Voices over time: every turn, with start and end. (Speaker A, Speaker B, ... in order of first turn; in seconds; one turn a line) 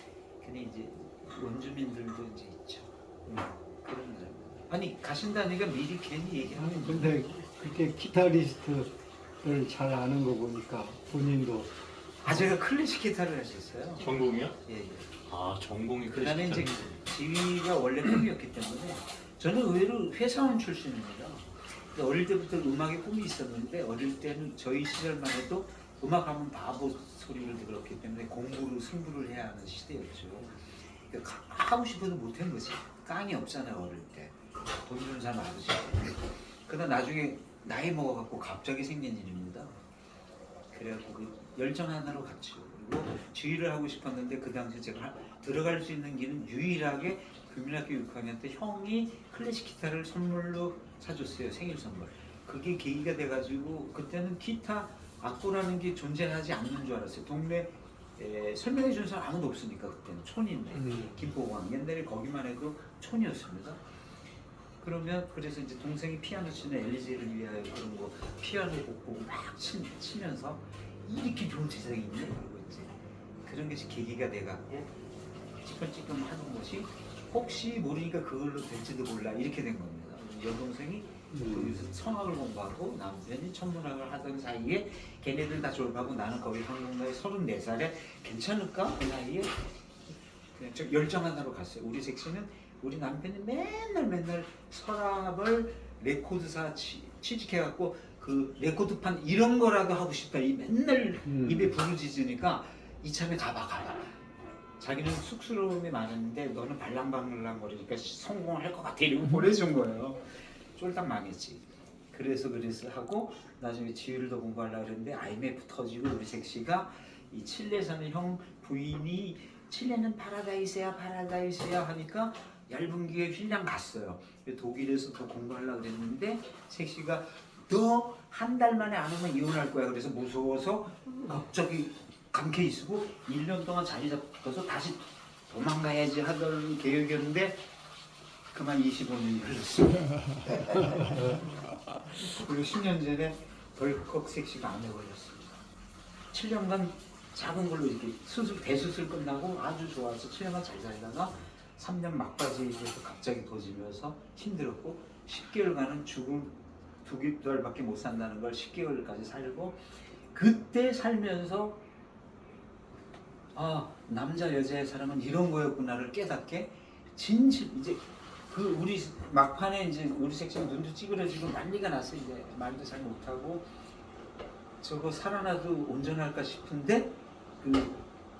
Speaker A: 0.4-7.4
Speaker B: 6.6-8.9
Speaker B: 9.4-11.7
Speaker A: 12.2-15.1
Speaker C: 14.0-14.5
Speaker C: 15.2-17.0
Speaker A: 16.1-39.8
Speaker A: 40.7-63.8
Speaker B: 60.8-61.2
Speaker A: 64.8-74.9
Speaker A: 75.6-89.7
Speaker B: 81.3-81.7
Speaker A: 90.5-104.1
Speaker B: 101.3-101.7
Speaker A: 104.8-137.7
Speaker A: 138.5-141.2
Speaker A: 142.1-145.6
Speaker A: 146.3-161.8
Speaker A: 163.5-173.7
Speaker A: 174.8-178.0